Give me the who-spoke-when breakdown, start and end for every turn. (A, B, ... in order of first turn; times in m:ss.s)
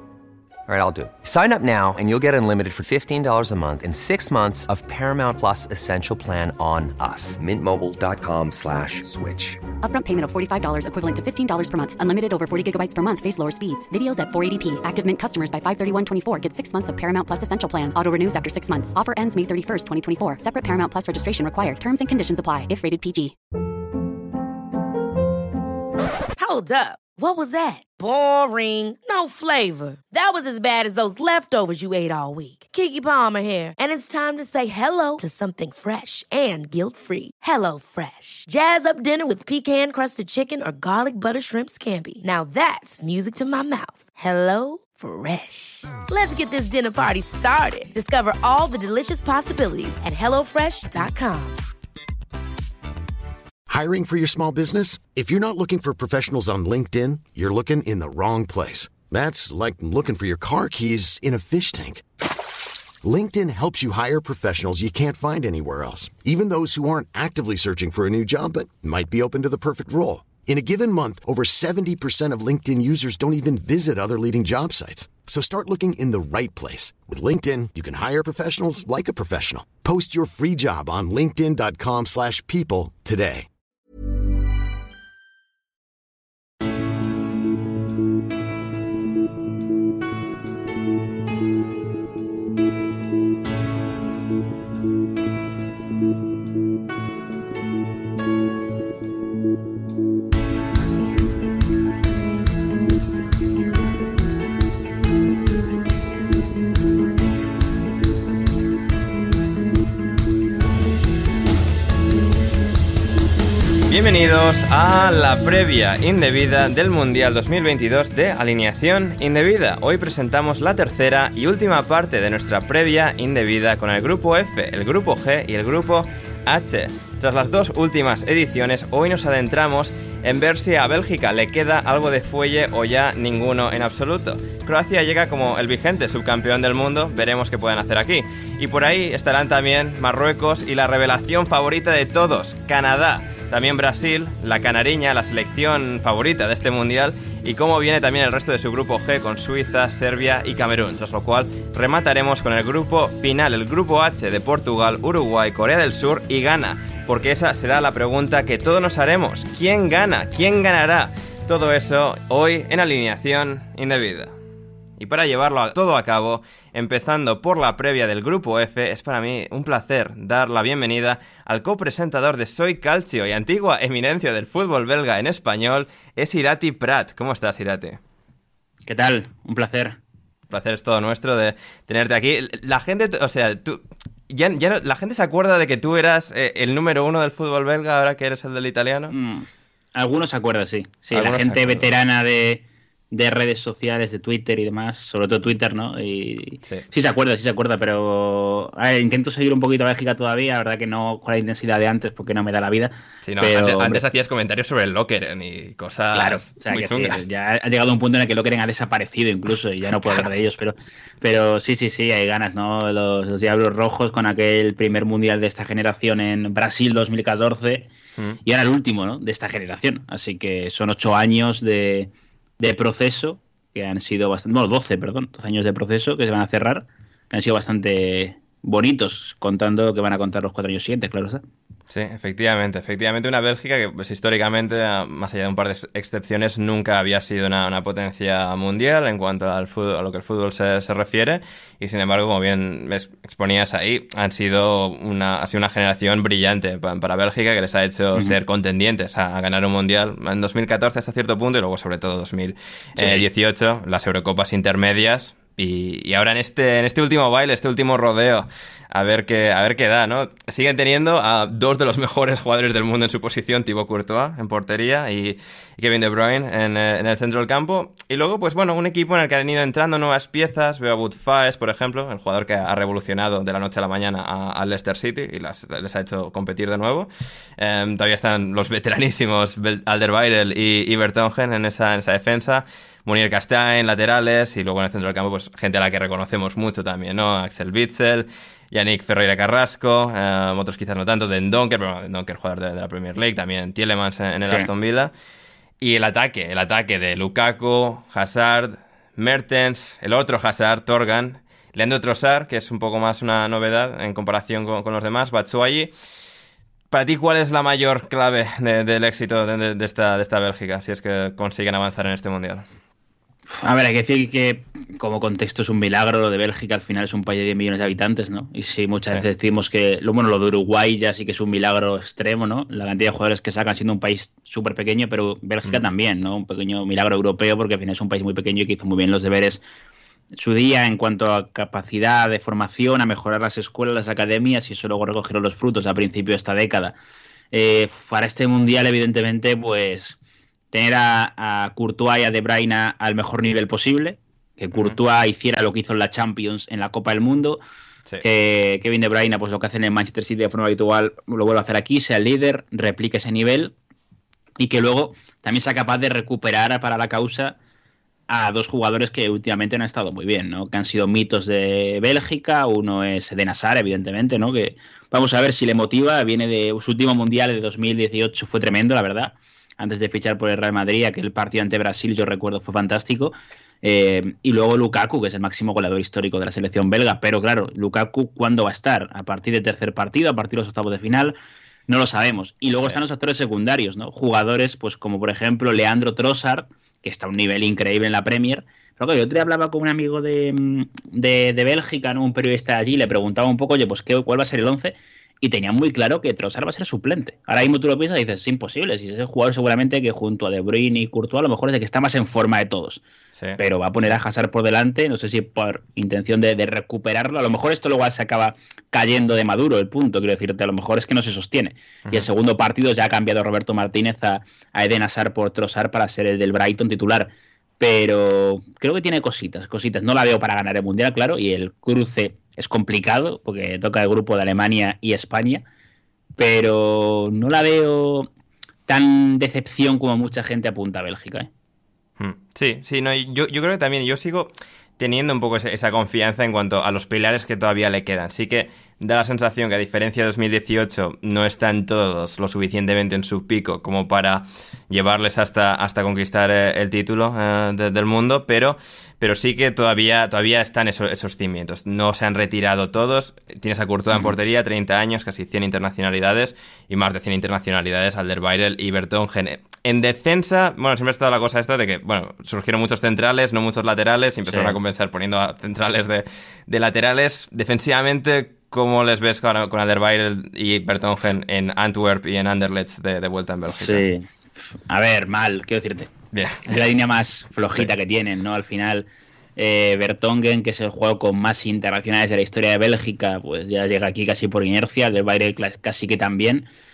0:00.7-0:09.7 A
0:09.8-0:23.4 B
0:26.4-0:51.6 C
0:53.7-1:02.0 D
1:03.0-1:23.5 D
1:53.9-2:44.4 E
2:45.0-2:58.0 E
2:58.9-3:00.0 F
3:00.5-3:09.1 E
3:09.1-3:24.0 F
3:11.1-3:11.9 E
3:23.2-3:27.2 E
3:26.1-3:37.9 F
3:38.4-3:51.4 F
3:51.9-4:55.1 E
4:13.0-4:13.2 F
4:55.8-5:05.9 E
5:06.9-5:12.6 E
5:13.5-5:29.6 F
5:30.3-5:37.0 F
5:37.5-5:40.2 F
5:40.7-5:47.6 F
5:48.2-5:53.7 F
5:54.6-5:57.6 F
5:58.3-6:21.4 F
6:21.9-6:43.0 F
6:43.4-6:44.1 E
6:43.6-7:05.6 F
7:06.4-7:08.3 F
7:08.9-7:11.5 F
7:12.2-7:54.0 E
7:44.5-7:44.8 F
7:53.7-7:56.1 F
7:56.3-7:56.8 E
7:56.7-8:06.7 F